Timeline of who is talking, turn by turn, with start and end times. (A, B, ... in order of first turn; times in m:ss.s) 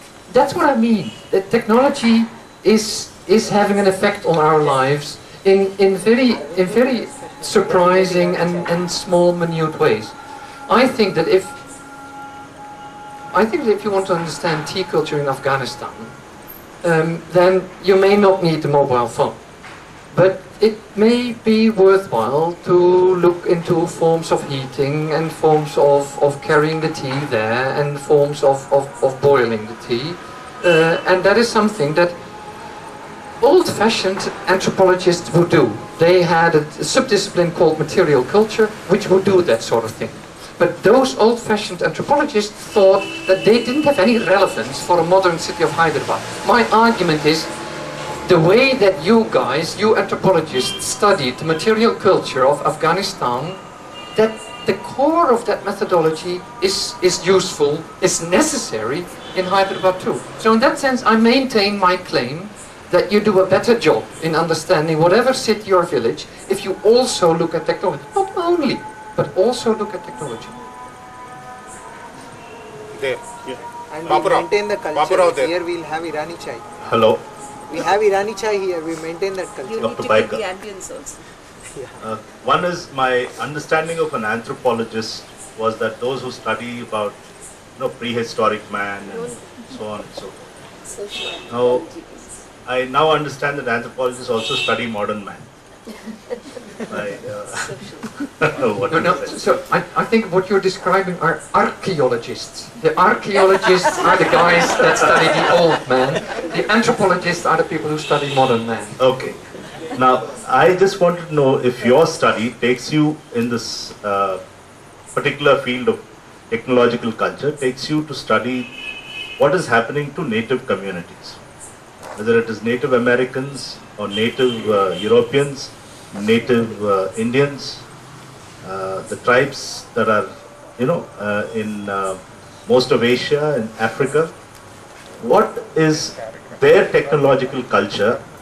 0:00.3-0:10.1 A
0:06.4-0:08.6 B
0:10.7-0:11.6 A
0:13.3-0:16.2 A
0:16.8-0:19.4 A
0:20.1-0:32.2 A
0:33.4-0:47.5 A
0:48.2-0:53.6 A
0:54.1-1:10.5 A
1:12.9-1:15.5 C
1:13.9-1:16.6 B
1:16.8-1:17.2 D
1:17.7-1:20.1 B
1:19.6-1:21.2 E
1:19.7-1:20.4 D
1:22.0-1:27.2 D
1:27.8-1:30.4 D
1:29.1-1:29.4 E
1:30.9-1:32.4 E
1:31.5-1:31.9 D
1:32.6-1:35.5 D
1:36.9-1:39.4 D
1:37.6-1:38.5 E
1:38.9-1:49.0 A
1:49.0-1:49.4 D
1:49.9-1:54.4 D
1:55.1-1:58.7 D
1:59.4-2:01.4 D
2:02.2-2:07.8 D
2:08.6-2:14.3 D
2:15.2-2:18.2 D